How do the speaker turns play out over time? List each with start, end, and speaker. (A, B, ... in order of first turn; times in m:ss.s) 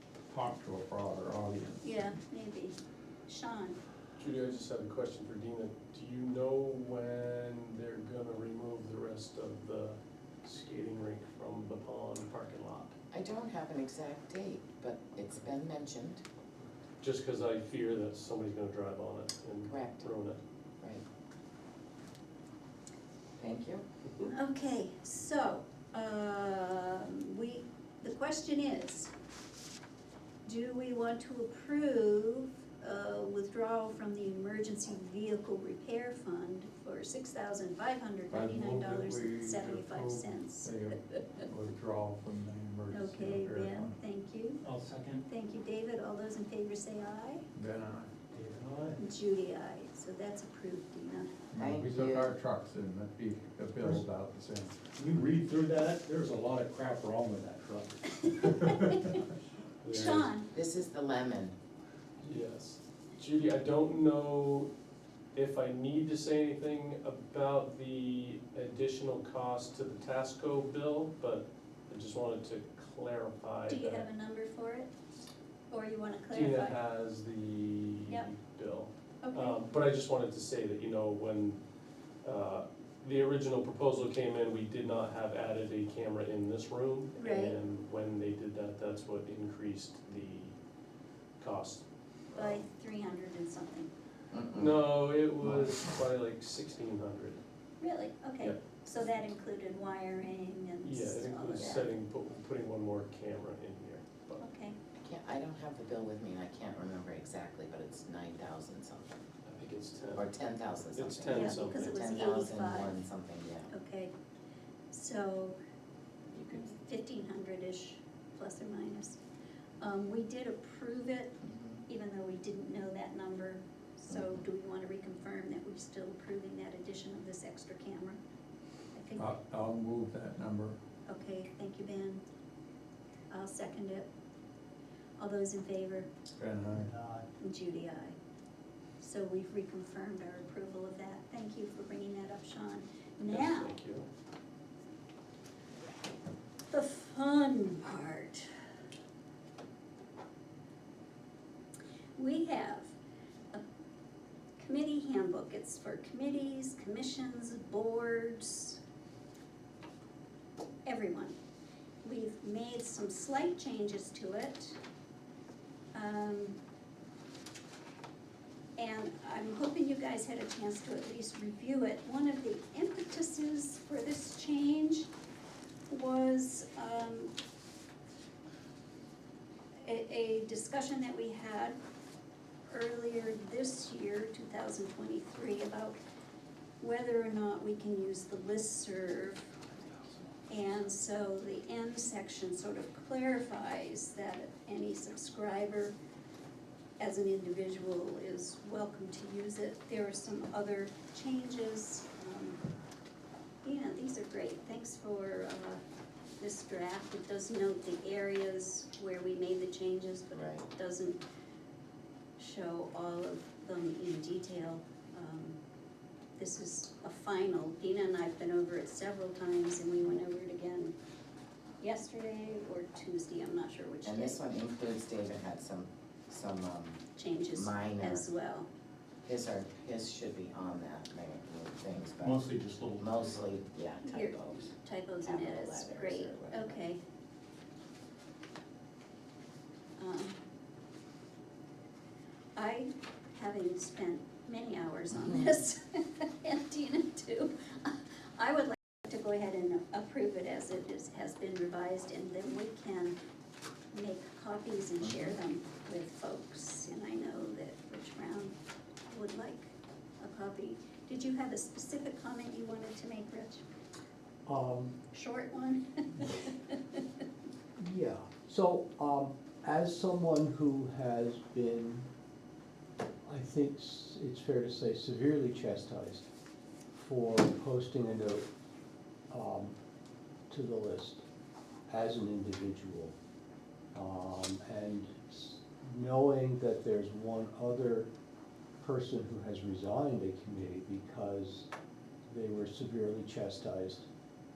0:00.3-0:01.9 A
0:01.8-0:02.8 B
0:03.3-0:03.8 B
0:04.2-0:12.9 C
0:13.1-0:16.2 D
0:17.0-0:20.4 C
0:19.7-0:20.1 D
0:23.4-0:23.8 D
0:24.2-0:29.1 B
0:30.4-0:41.5 B
0:38.3-0:44.0 A
0:42.9-0:44.6 B
0:44.6-0:45.2 E
0:45.3-0:47.4 B
0:47.5-0:48.1 A
0:48.3-0:49.0 E
0:49.0-0:51.5 B
0:51.5-0:54.8 A
0:51.6-0:52.3 D
0:55.0-0:59.1 E
0:58.2-0:59.2 B
0:59.8-1:00.3 E
0:59.9-1:00.5 B
1:00.5-1:01.6 D
1:02.2-1:04.7 C
1:05.3-1:14.0 C
1:13.7-1:14.9 B
1:15.7-1:16.8 B
1:16.3-1:21.6 C
1:19.2-1:19.6 B
1:22.2-1:30.6 C
1:27.2-1:27.6 B
1:31.4-1:32.6 C
1:32.3-1:33.9 B
1:34.3-1:34.8 D
1:34.5-1:37.4 C
1:35.4-1:35.7 D
1:37.8-1:41.9 B
1:40.8-1:44.4 C
1:44.4-1:44.8 B
1:45.0-1:49.2 D
1:49.4-1:52.1 C
1:50.1-1:53.7 D
1:51.3-1:53.0 B
1:53.7-1:54.1 B
1:54.9-1:55.6 B
1:56.3-1:56.7 D
1:56.5-1:59.2 B
1:59.8-2:08.2 B
2:01.4-2:01.8 D
2:04.1-2:04.4 D
2:08.9-2:09.4 B
2:09.2-2:10.8 A
2:11.1-2:12.2 B
2:13.3-2:14.1 B
2:15.2-2:16.1 B
2:16.4-2:16.9 A
2:16.8-2:17.2 E
2:17.4-2:18.1 B
2:19.0-2:23.7 B
2:23.3-2:24.1 C
2:26.7-2:28.5 B
2:32.2-2:32.9 B
2:34.6-2:38.8 B
2:40.8-2:41.4 B
2:42.0-2:44.8 B
2:45.9-2:46.6 B
2:48.8-2:55.1 B
2:55.9-2:57.3 B
2:59.8-3:01.8 B
3:02.7-3:06.0 B
3:06.8-3:09.6 B
3:10.5-3:15.9 B
3:17.0-3:22.6 B
3:23.6-3:25.8 B
3:26.4-3:31.2 B
3:30.3-3:30.6 D
3:32.4-3:35.6 B
3:36.4-3:41.0 B
3:41.8-3:44.4 B
3:44.0-3:47.0 D
3:47.2-3:48.7 B
3:47.5-3:48.2 D
3:49.2-3:56.8 D
3:52.2-3:53.5 E
3:54.0-3:57.0 B
4:00.0-4:00.4 B
4:02.6-4:13.1 B
4:13.9-4:18.5 B
4:19.1-4:23.6 B
4:24.4-4:24.9 F
4:25.1-4:27.0 B
4:27.8-4:32.1 F
4:33.2-4:36.2 F
4:36.9-4:38.5 F
4:39.3-4:39.8 F
4:40.5-4:41.2 F
4:41.9-4:43.1 F
4:43.9-4:48.1 F
4:48.8-4:51.7 F
4:52.3-4:54.1 F